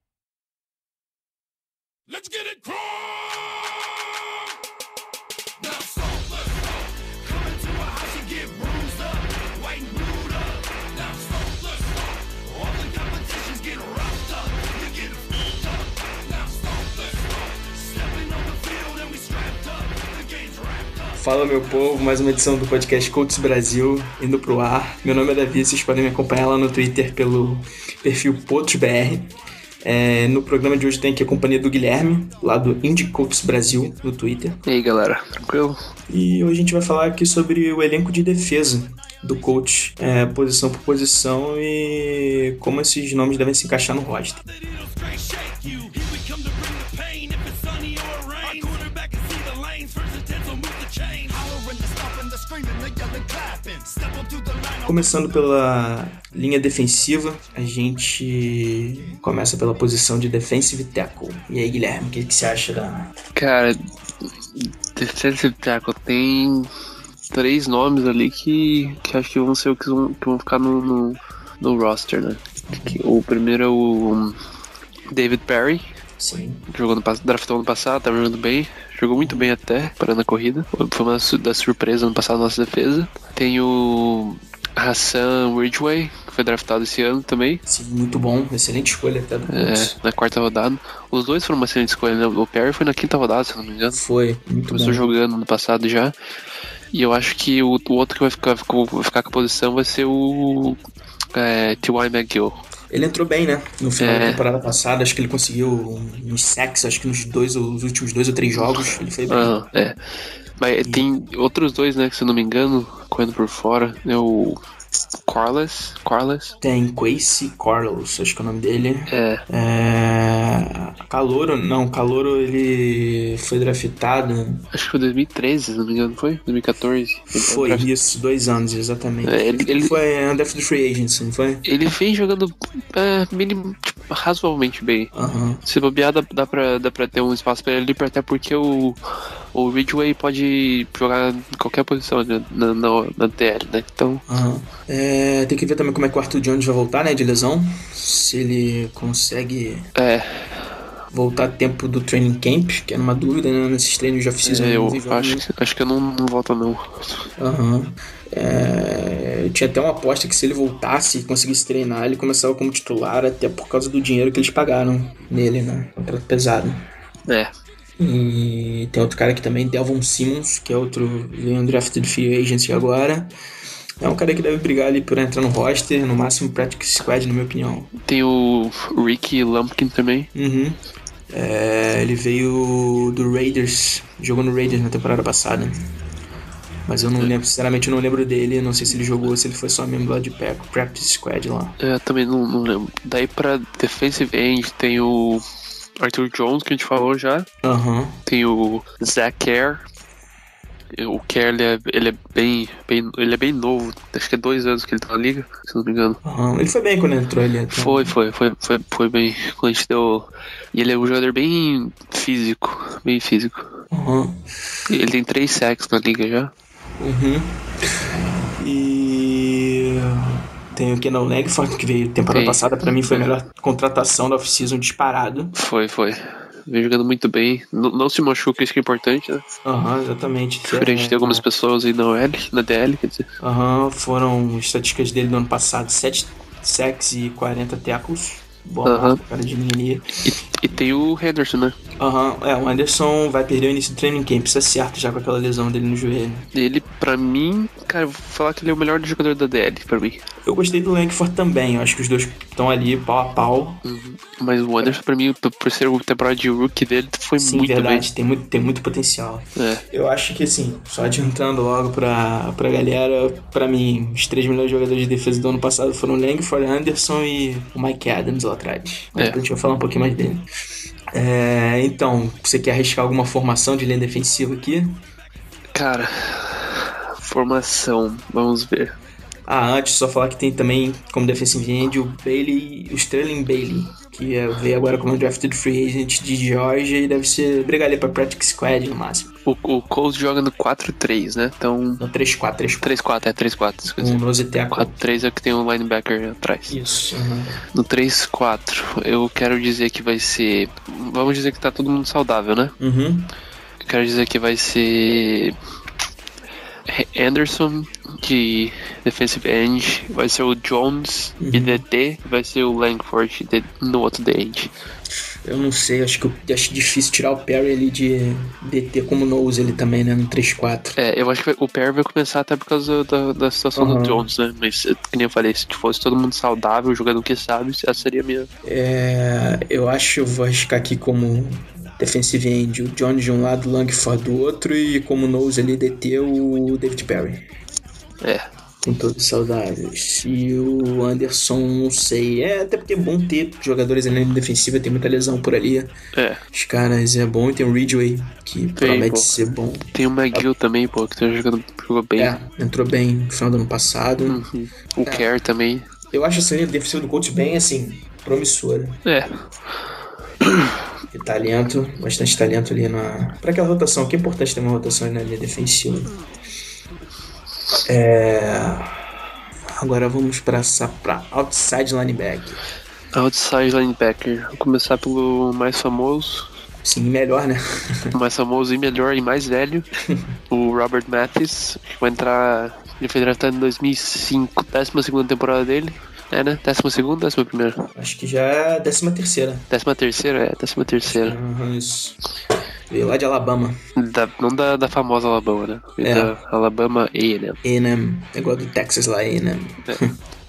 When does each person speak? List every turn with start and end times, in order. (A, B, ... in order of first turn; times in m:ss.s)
0:02.1-0:03.7 A
0:05.6-0:21.2 A
0:21.2-0:29.3 B
0:29.8-0:34.6 B
0:34.6-0:35.8 C
0:36.1-0:44.4 B
0:44.4-0:55.2 A
0:54.8-1:03.1 B
1:03.3-1:03.8 C
1:04.5-1:06.7 C
1:07.3-1:14.4 C
1:12.7-1:13.0 B
1:15.1-1:15.8 C
1:16.2-1:16.6 B
1:16.7-1:27.6 C
1:19.2-1:19.5 B
1:27.6-1:29.9 B
1:29.5-1:34.0 C
1:33.9-1:35.1 B
1:34.7-1:36.1 C
1:36.9-1:40.8 C
1:41.3-1:42.6 C
1:42.9-1:49.5 B
1:44.0-1:44.4 C
1:48.6-1:50.0 C
1:50.6-1:54.6 C
1:55.3-1:56.5 C
1:56.6-2:04.6 B
1:59.1-1:59.4 C
2:04.7-2:07.9 C
2:07.3-2:11.6 B
2:09.2-2:09.9 C
2:11.6-2:15.1 C
2:15.1-2:15.6 B
2:15.6-2:19.0 C
2:19.5-2:24.2 C
2:24.3-2:29.9 B
2:30.0-2:30.7 C
2:31.1-2:35.4 B
2:34.4-2:37.2 C
2:37.4-2:46.8 B
2:48.0-2:53.3 B
2:54.0-2:57.9 B
2:58.0-3:00.3 C
3:00.3-3:00.8 B
3:01.3-3:05.9 B
3:06.9-3:11.8 B
3:11.8-3:15.4 C
3:16.0-3:17.5 C
3:17.6-3:18.2 B
3:18.2-3:19.8 C
3:20.9-3:26.2 C
3:26.2-3:28.1 B
3:27.7-3:33.8 C
3:33.9-3:34.4 B
3:34.9-3:36.5 C
3:37.0-3:45.5 B
3:42.3-3:43.3 C
3:45.5-3:49.4 C
3:49.6-3:51.4 B
3:50.7-3:53.3 C
3:53.4-4:00.0 B
3:58.8-3:59.2 C
4:00.2-4:01.8 C
4:02.0-4:06.5 B
4:06.5-4:10.2 C
4:10.4-4:13.8 B
4:13.8-4:18.0 C
4:17.4-4:30.5 B
4:19.6-4:19.8 C
4:31.1-4:35.0 B
4:35.7-4:38.9 C
4:39.5-4:49.3 B
4:49.4-4:52.0 C
4:52.0-4:52.9 B
4:52.8-4:56.8 C
4:54.0-4:54.9 B
4:56.7-4:57.6 B
4:57.7-5:02.7 C
5:02.8-5:03.3 B
5:03.8-5:05.5 C
5:06.9-5:14.7 C
5:11.4-5:11.8 B
5:15.4-5:21.0 B
5:21.0-5:28.5 C
5:23.8-5:24.3 B
5:28.6-5:37.4 B
5:38.2-5:38.5 C
5:38.8-5:45.9 B
5:46.1-5:46.4 C
5:46.5-5:50.4 B
5:48.8-5:49.3 C
5:49.9-5:52.3 C
5:52.2-5:54.4 B
5:54.2-5:55.9 C
5:56.1-5:59.0 B
5:59.0-5:59.4 C
6:00.4-6:00.7 C
6:01.1-6:06.1 B
6:07.8-6:08.9 B
6:09.8-6:12.6 B
6:13.1-6:16.5 C
6:16.8-6:18.1 B
6:18.1-6:19.9 C
6:20.5-6:27.9 C
6:28.0-6:29.7 B
6:29.7-6:31.4 C
6:31.0-6:32.2 B
6:32.9-6:33.8 B
6:34.0-6:37.6 C
6:36.0-6:36.3 B
6:37.6-6:40.1 B